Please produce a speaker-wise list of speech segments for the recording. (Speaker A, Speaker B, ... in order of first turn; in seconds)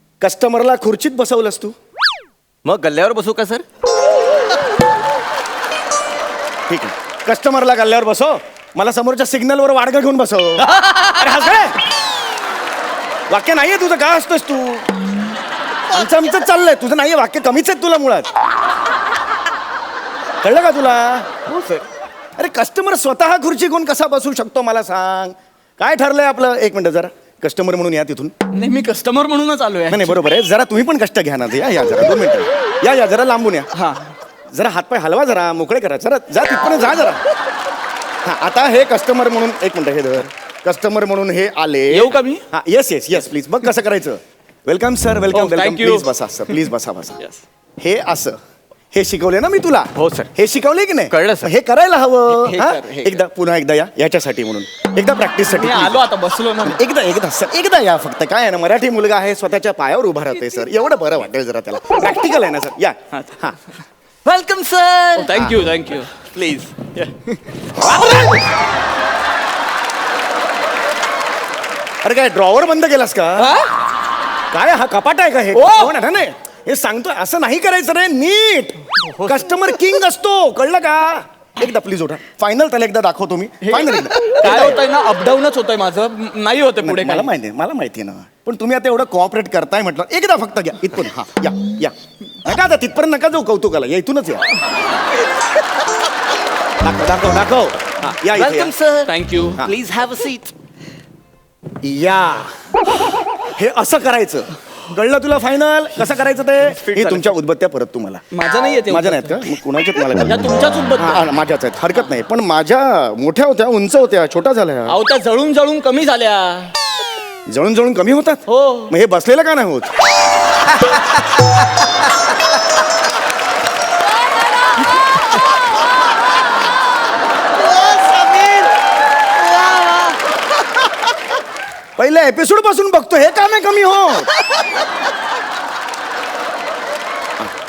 Speaker A: 0.2-1.7, 6.7-11.8, 13.3-14.9, 15.9-18.3, 20.4-21.3, 22.4-28.3, 29.9-33.7, 34.5-37.2, 38.2-47.2, 47.8-48.4, 48.9-56.1, 56.6-63.6, 72.0-73.6, 74.5-84.8, 86.8-94.4, 96.8-98.7, 101.8-102.5, 103.5-108.2, 108.9-115.0, 117.5-119.9, 132.0-134.3
Speaker B: 2.6-3.6, 10.7-11.3, 21.5-21.8, 50.0-50.3, 51.1-51.5, 64.2-65.3, 66.3-67.1, 67.9-68.3, 98.3-100.5, 128.0-128.7
Speaker C: 28.5-30.2, 33.7-34.1, 41.9-42.4, 45.3-46.1, 52.4-53.1, 55.5-56.8, 63.1-63.5, 65.1-66.1, 67.8-68.3, 73.4-73.7, 75.5-76.0, 79.1-79.4, 83.6-87.3, 99.1-99.6, 106.7-107.3, 108.3-109.5, 110.2-111.3, 114.9-116.7, 118.5-118.9, 129.6-130.0